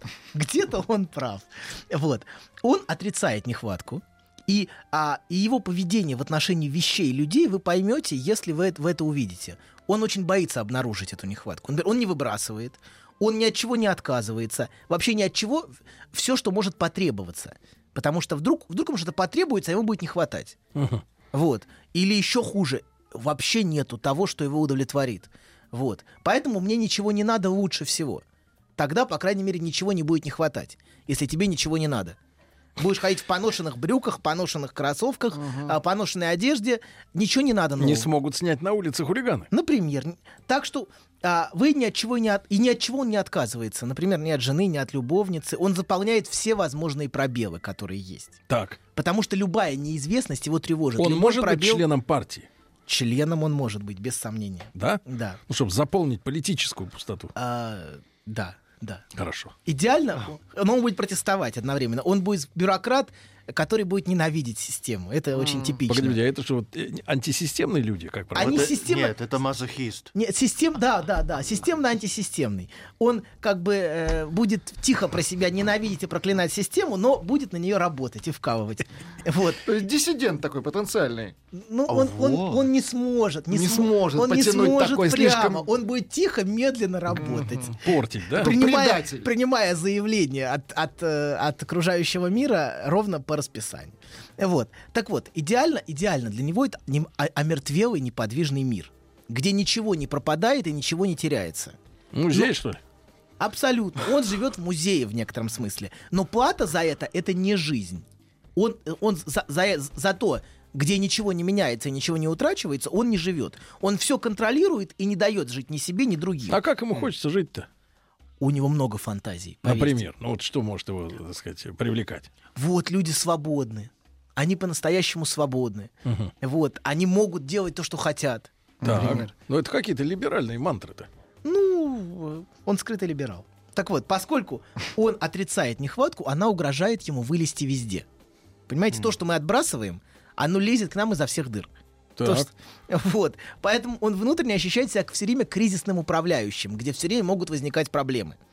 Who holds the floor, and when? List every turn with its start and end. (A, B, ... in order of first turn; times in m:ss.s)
0:00.3-0:20.6 A
0:20.8-0:21.0 B
0:21.3-0:28.2 A
0:28.8-0:32.2 A
0:32.8-0:38.1 A
0:35.4-0:35.7 C
0:37.8-0:39.5 B
0:39.5-0:48.4 A
0:48.5-0:48.8 B
0:49.0-0:51.8 A
0:51.0-0:52.5 B
0:52.9-0:55.4 A
0:54.8-0:57.3 B
0:57.4-0:59.0 A
0:59.2-0:59.5 B
0:59.7-1:06.2 A
1:05.4-1:05.8 C
1:05.9-1:08.7 B
1:08.3-1:09.2 A
1:08.4-1:10.1 D
1:10.1-1:19.7 A
1:19.6-1:21.4 C
1:21.5-1:27.8 A
1:21.9-1:22.7 D
1:23.5-1:25.7 C
1:27.1-1:27.7 C
1:27.8-1:28.5 B
1:28.4-1:29.3 C
1:28.4-1:41.8 A
1:42.1-1:42.8 B
1:43.4-1:48.0 A
1:48.6-1:56.6 A
1:56.5-1:57.7 B
1:58.4-2:00.0 A
1:59.6-2:02.3 B
2:02.6-2:09.3 A
2:06.1-2:06.3 B
2:08.8-2:09.3 C
2:08.8-2:11.1 B
2:11.4-2:18.1 A
2:18.7-2:21.7 A
2:22.2-2:22.5 B
2:22.2-2:28.4 A